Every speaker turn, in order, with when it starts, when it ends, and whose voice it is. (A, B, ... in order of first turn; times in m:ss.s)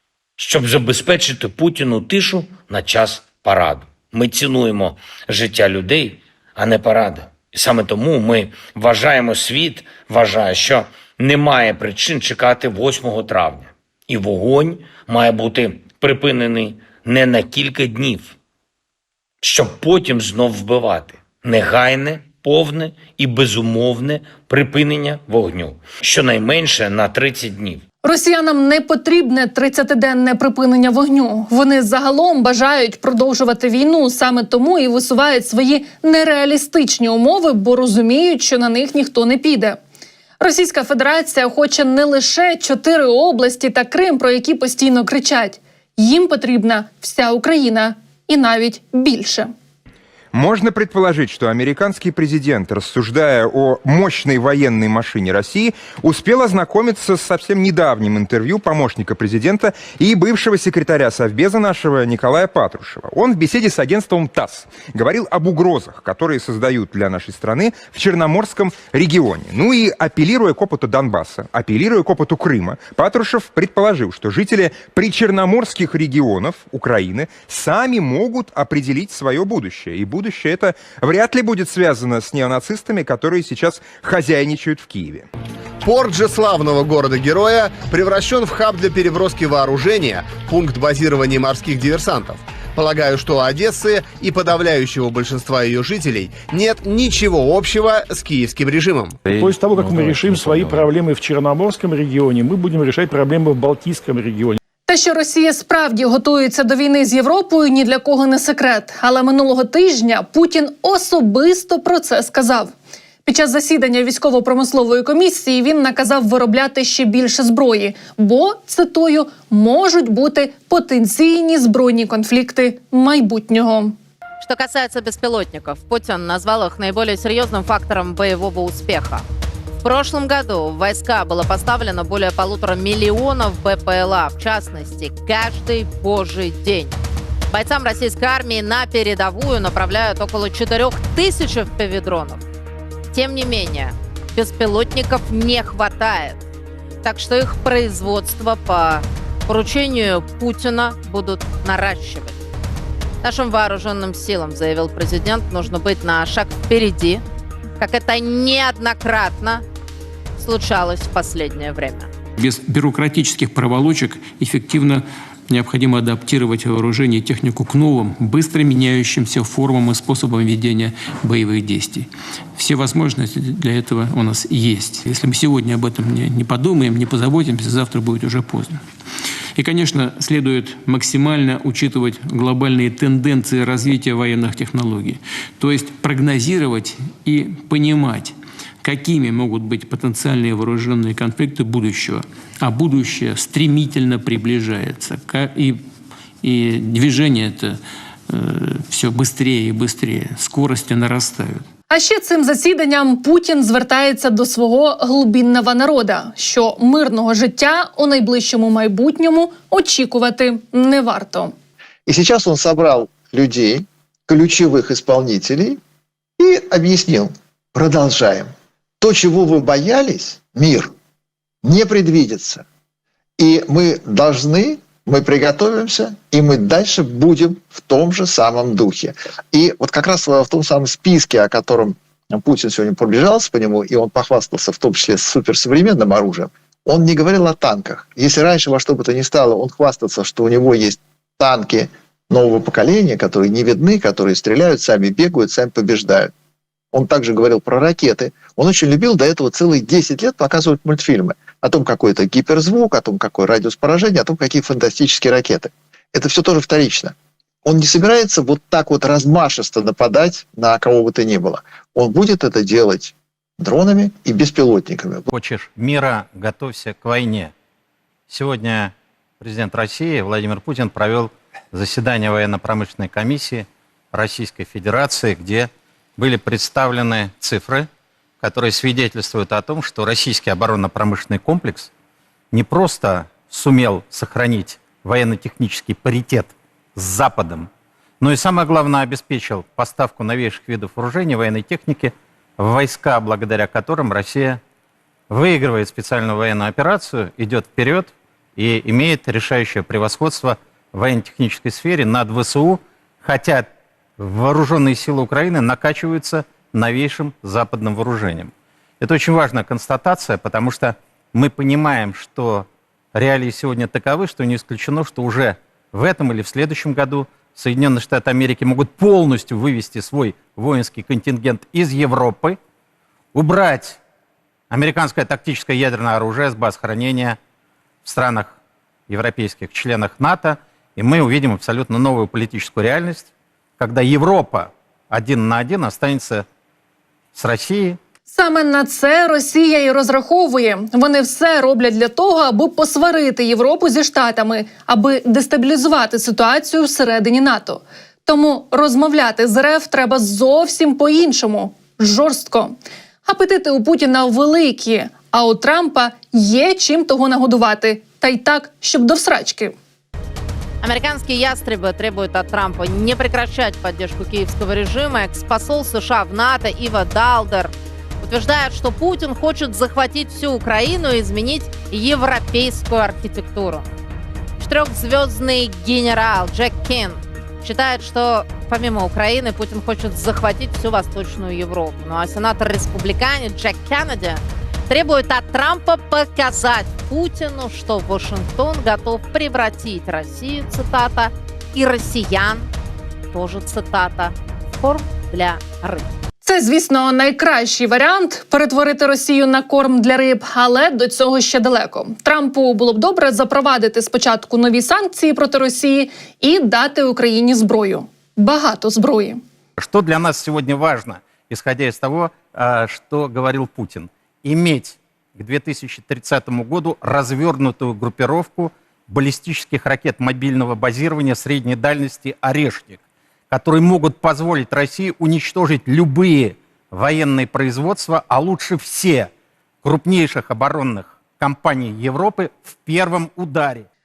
0:00.4-0:18.4 A
0:19.4-0:27.8 A
0:28.0-0:39.8 B
0:40.4-0:49.5 B
0:50.3-1:25.3 C
1:26.0-1:39.1 D
1:39.4-1:44.6 E
1:39.8-1:40.6 D
1:44.9-1:52.7 B
1:53.2-2:04.0 B
2:04.4-2:09.2 F
2:09.8-2:17.0 F
2:17.5-2:22.4 F
2:23.1-2:26.4 F
2:27.0-2:32.4 F
2:33.2-2:37.2 F
2:37.8-2:39.6 F
2:40.4-2:42.1 F
2:42.4-2:58.8 G
2:59.6-3:15.8 G
3:16.4-3:21.6 G
3:21.9-3:31.5 B
3:32.1-3:35.8 H
3:36.4-3:40.9 H
3:41.6-3:42.6 H
3:43.4-4:06.3 H
4:06.9-4:17.1 H
4:17.6-4:25.3 H
4:25.3-4:27.5 I
4:28.3-4:37.9 I
4:38.4-4:41.9 I
4:42.5-4:47.7 I
4:48.2-4:54.6 I
4:55.3-5:03.7 I
5:04.2-5:22.6 I
5:23.4-5:24.0 I
5:24.7-5:27.4 I
5:28.0-5:28.6 I
5:29.1-5:36.4 I
5:37.4-5:38.0 I
5:38.3-5:59.8 B
6:00.8-6:13.9 F
6:14.6-6:32.7 F
6:33.3-6:36.1 F
6:36.4-6:49.4 B
6:49.8-7:03.0 I
7:03.5-7:09.3 I
7:09.8-7:13.9 I